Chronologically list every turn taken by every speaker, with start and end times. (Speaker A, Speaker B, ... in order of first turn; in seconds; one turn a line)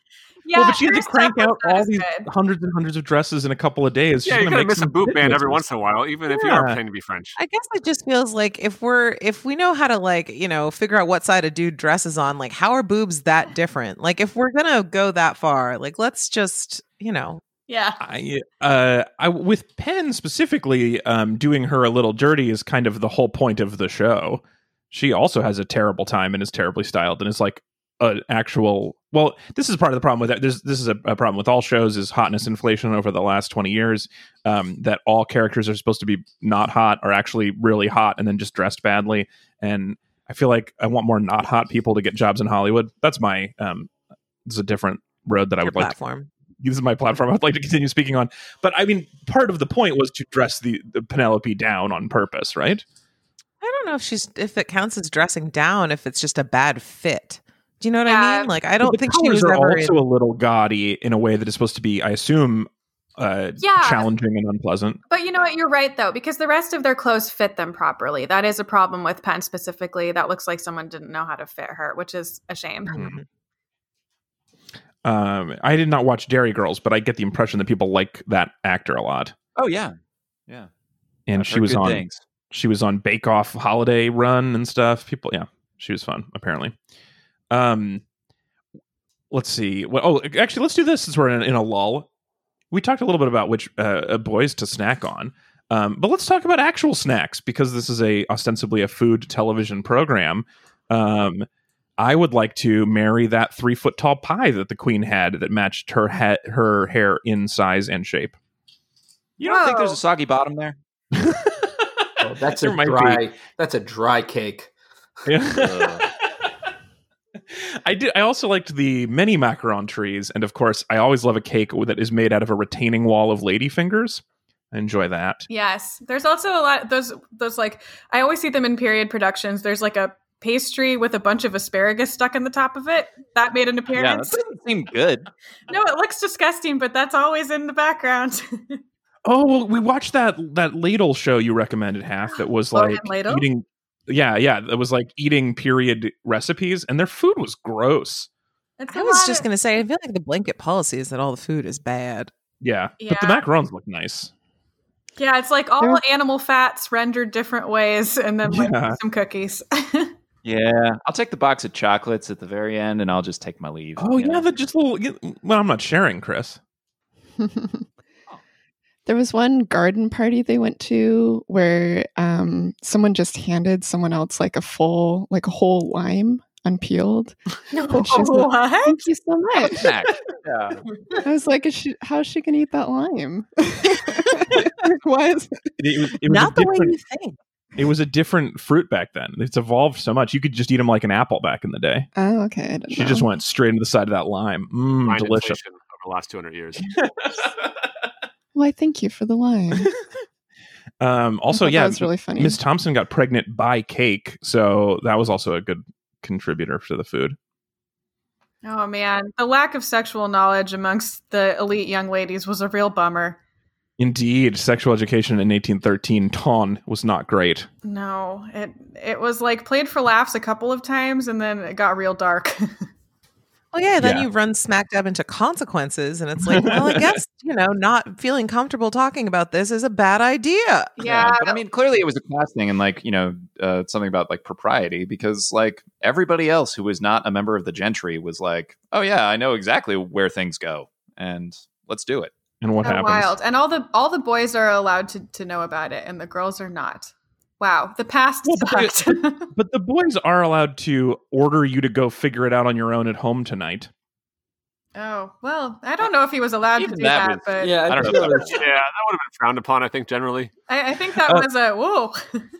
Speaker A: 0.5-2.3
Speaker B: 0.5-5.7
Speaker C: 4.2-7.3
Speaker B: 6.3-6.8
Speaker D: 7.4-17.4
Speaker A: 17.7-18.0
Speaker B: 18.0-43.9
Speaker B: 44.5-46.0
Speaker D: 45.6-46.3
Speaker B: 46.6-52.8
Speaker D: 53.6-60.0
Speaker A: 58.1-58.5
Speaker B: 58.8-65.0
Speaker A: 63.6-64.1
Speaker A: 65.1-73.0
Speaker D: 72.9-73.2
Speaker B: 72.9-73.2
Speaker B: 75.0-79.3
Speaker E: 79.6-79.9
Speaker B: 81.3-86.7
Speaker E: 81.3-82.2
Speaker B: 87.5-88.0
Speaker B: 89.3-92.1
Speaker B: 92.7-101.5
Speaker B: 102.0-108.3
Speaker E: 109.4-110.8
Speaker A: 109.4-110.0
Speaker B: 111.2-113.2
Speaker F: 112.2-114.7
Speaker B: 115.3-116.1
Speaker E: 115.5-116.0
Speaker B: 117.5-125.5
Speaker A: 125.5-134.4
Speaker E: 133.9-135.3
Speaker A: 135.7-138.8
Speaker B: 139.2-148.3
Speaker A: 142.3-143.5
Speaker A: 148.8-149.5
Speaker D: 148.9-152.3
Speaker B: 152.6-154.3
Speaker A: 153.0-153.4
Speaker A: 155.2-160.1
Speaker B: 158.5-159.0
Speaker E: 160.4-164.5
Speaker B: 164.0-166.6
Speaker G: 167.4-167.9
Speaker G: 169.1-180.0
Speaker A: 177.7-179.1
Speaker E: 179.7-180.8
Speaker G: 181.2-185.7
Speaker B: 185.8-187.0
Speaker D: 186.2-187.4
Speaker B: 187.8-192.1
Speaker G: 192.2-193.3
Speaker B: 192.9-195.6
Speaker C: 195.1-196.9
Speaker B: 196.9-197.6
Speaker G: 198.6-199.9
Speaker B: 201.0-207.4
Speaker G: 201.5-202.6
Speaker A: 208.6-213.4
Speaker B: 214.0-217.7
Speaker A: 217.8-222.8
Speaker D: 223.7-230.9
Speaker B: 224.0-224.3
Speaker B: 226.4-227.2
Speaker A: 231.0-231.6
Speaker E: 231.0-242.3
Speaker B: 242.6-243.3
Speaker A: 242.8-249.5
Speaker B: 248.4-253.9
Speaker A: 254.9-258.4
Speaker E: 256.8-258.6
Speaker F: 257.6-258.6
Speaker C: 258.5-260.5
Speaker A: 260.7-262.5